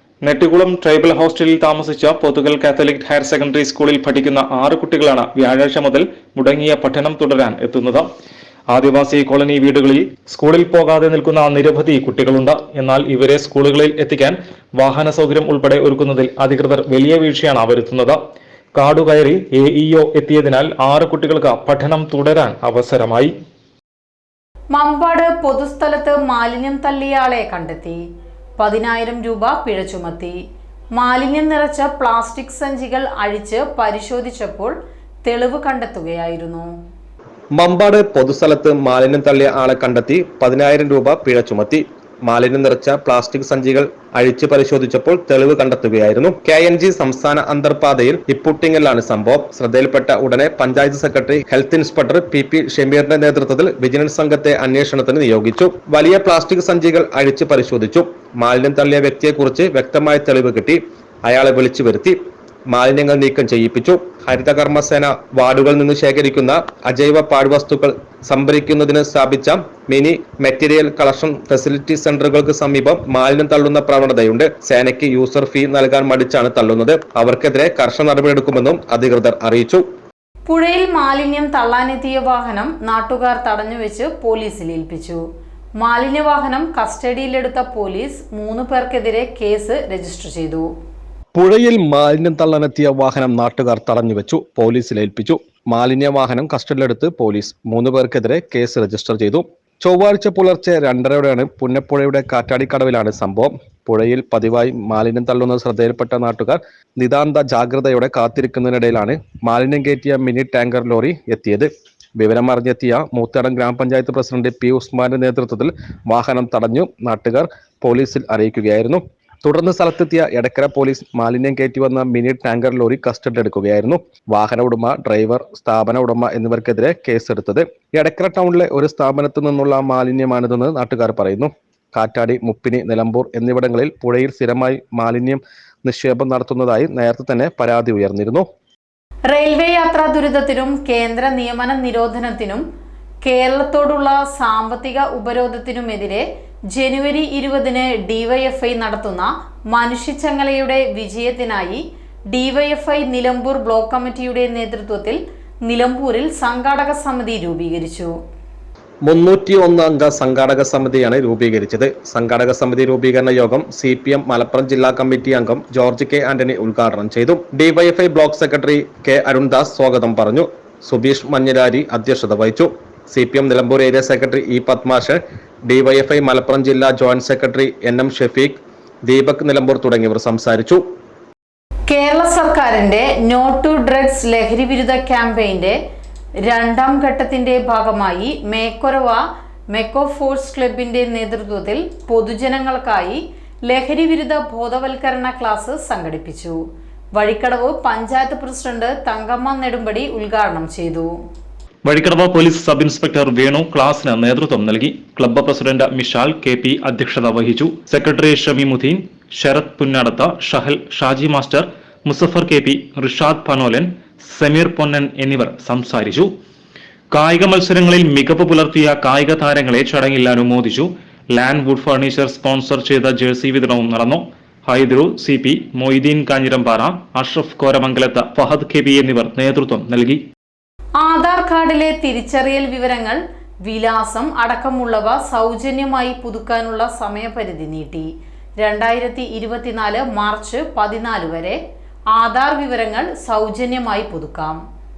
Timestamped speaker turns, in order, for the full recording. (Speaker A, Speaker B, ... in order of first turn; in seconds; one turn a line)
Speaker A: 0.2-8.1
Speaker A: 8.7-18.2
Speaker A: 18.8-23.3
Speaker B: 24.7-28.0
Speaker B: 28.6-30.4
Speaker B: 30.9-34.7
Speaker B: 35.2-36.7
Speaker C: 37.6-62.2
Speaker C: 62.7-79.8
Speaker B: 80.5-85.2
Speaker B: 85.8-90.7
Speaker C: 91.3-138.4
Speaker B: 139.3-142.6
Speaker B: 143.2-158.1
Speaker C: 159.1-180.8
Speaker B: 181.9-185.8
Speaker B: 186.5-189.2
Speaker B: 189.7-196.6
Speaker B: 197.2-201.1
Speaker A: 201.9-216.3
Speaker A: 217.1-230.2
Speaker B: 231.0-238.1
Speaker B: 238.6-241.6
Speaker B: 242.1-244.6